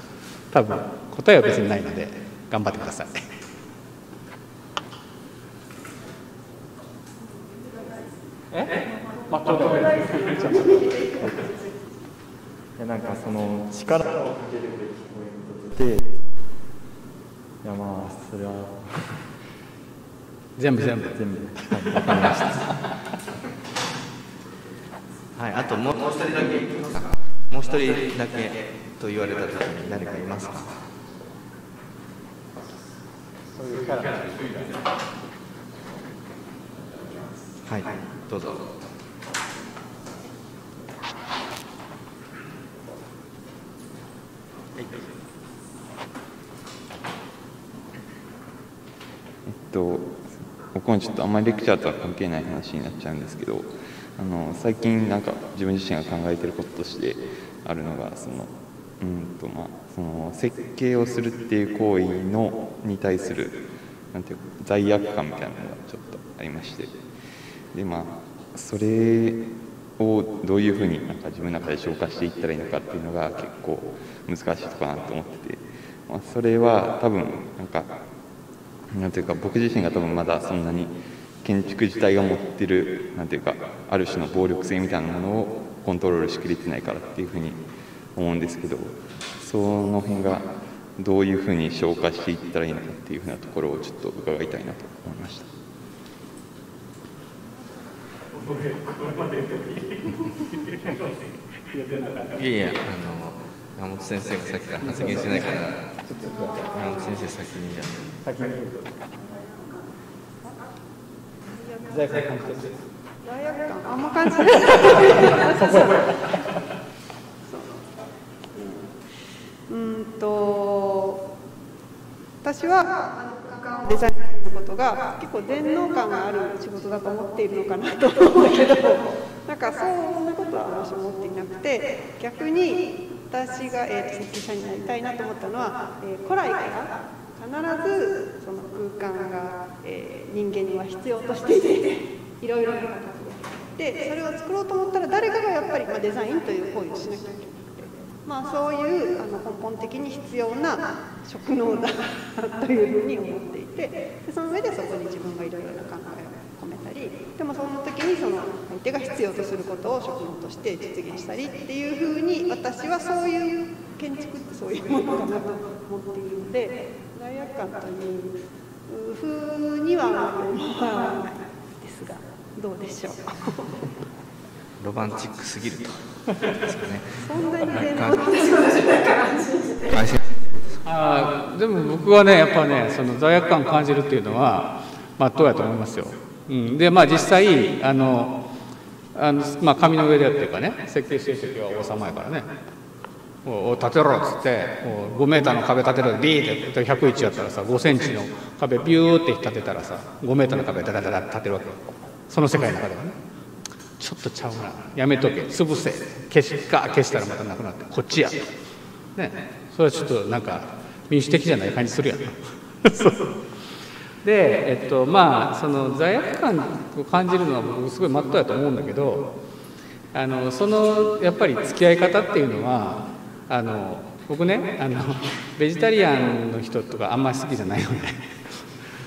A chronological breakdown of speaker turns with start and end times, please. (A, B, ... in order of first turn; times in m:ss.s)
0:00.5-0:03.3 A
0:08.5-0:10.8 A
0:09.5-0:11.4 B
0:12.8-0:16.1 B
0:17.6-0:19.3 B
0:20.6-0:22.5 A
0:21.0-0:22.6 B
0:25.3-0:30.7 C
0:33.6-0:34.7 A
0:37.6-0:38.7 C
0:49.4-1:07.0 D
1:07.7-1:09.5 D
1:10.0-1:18.0 D
1:18.9-1:35.5 D
1:42.3-1:48.1 C
1:48.2-1:48.9 B
1:52.1-1:52.6 A
1:53.2-1:56.1 E
1:57.5-1:57.8 E
1:58.5-1:59.0 E
1:59.7-2:01.2 E
2:02.4-2:53.8 E
2:54.8-2:58.2 C
2:57.2-2:59.5 E
2:59.9-3:00.2 C
3:00.8-3:08.4 A
3:09.1-3:12.5 A
3:13.4-3:23.2 A
3:24.0-3:28.5 A
3:29.2-3:33.3 A
3:34.2-3:39.3 A
3:40.1-3:48.7 A